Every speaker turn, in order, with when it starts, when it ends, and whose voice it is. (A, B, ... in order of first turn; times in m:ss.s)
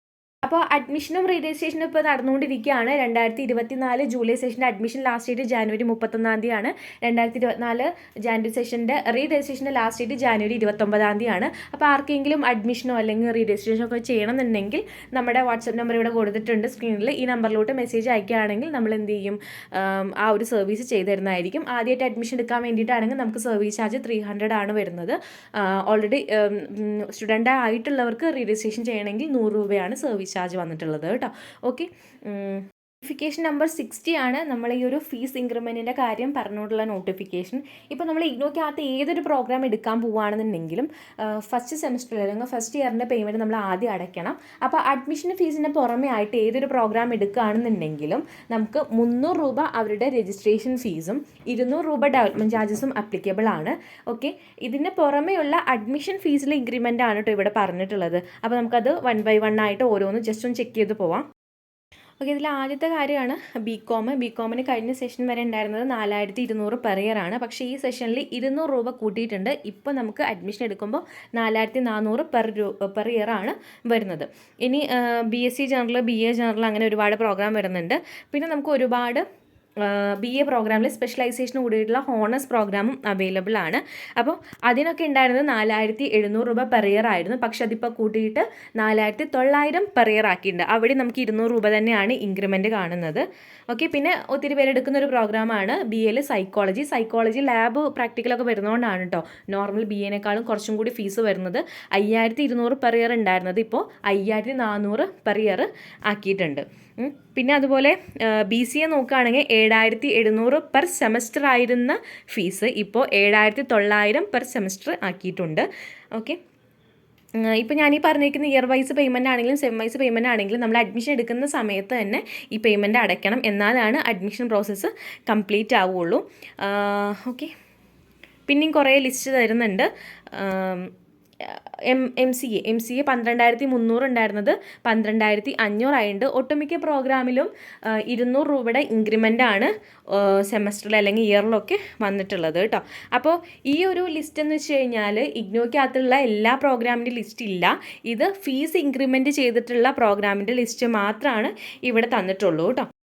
0:00.4-1:01.3 A
1:02.2-1:19.2 A
1:19.8-1:56.4 A
1:57.4-2:07.5 A
2:08.5-2:32.9 A